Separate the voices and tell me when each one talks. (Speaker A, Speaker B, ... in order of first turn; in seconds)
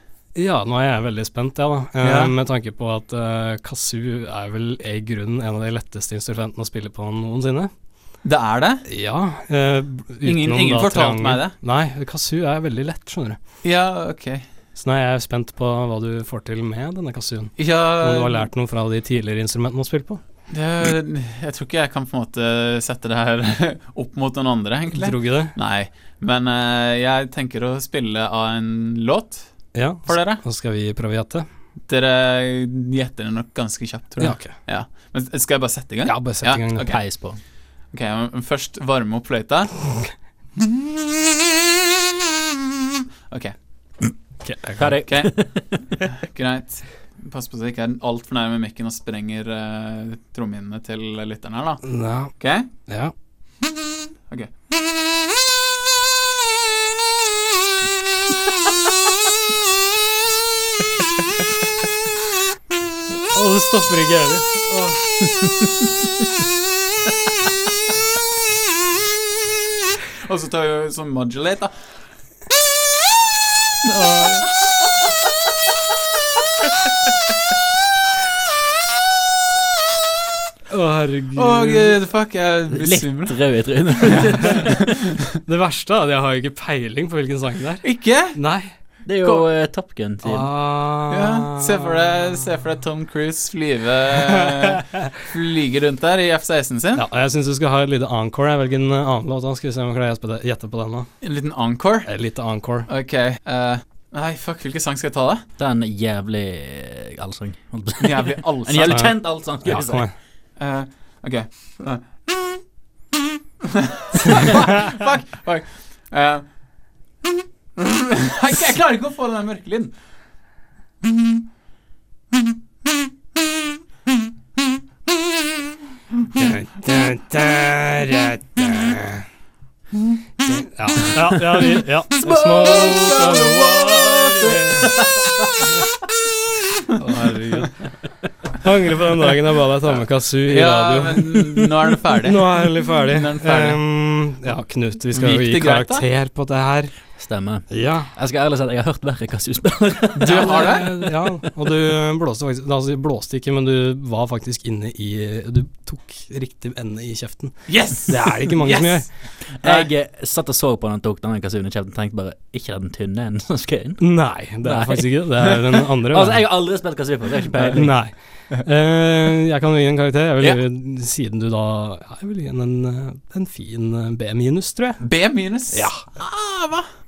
Speaker A: 0.3-7.7, 8.9-13.4, 14.8-20.2, 24.9-25.5, 29.7-31.4, 34.2-34.5, 36.0-36.9, 44.4-45.0, 51.8-52.3, 52.9-53.1, 63.2-65.0, 80.7-82.0, 84.3-84.7, 85.4-88.7, 90.2-92.5, 96.9-101.1, 102.0-102.9, 108.9-109.1, 109.6-110.1, 126.3-129.2, 130.4-134.9, 137.0-137.7, 138.6-146.9, 147.7-148.1, 150.2-159.1, 164.0-166.4, 167.7-175.0, 175.7-176.0
Speaker B: 2.0-2.3, 8.2-8.8, 10.2-11.5, 13.6-14.4, 17.6-18.5, 20.5-29.5, 30.0-30.4, 31.9-37.0, 37.9-39.7, 40.6-40.9, 43.3-43.5, 45.0-45.3, 46.1-51.8, 52.3-52.7, 70.2-71.7, 73.8-74.5, 81.3-83.4, 84.0-85.0, 87.8-88.4, 91.1-97.0, 101.2-102.1, 102.9-105.4, 108.0-109.1, 110.6-112.6, 113.6-116.5, 117.8-119.9, 121.0-121.4, 132.2-134.9, 140.5-143.8, 145.1-146.0, 150.2-150.9, 157.7-159.1, 159.6-159.9, 175.0-176.9
Speaker C: 36.8-37.4, 44.8-45.8, 82.7-84.8, 89.0-90.5, 105.6-110.0, 147.2-151.5, 159.6-164.0, 164.6-165.1, 166.1-167.9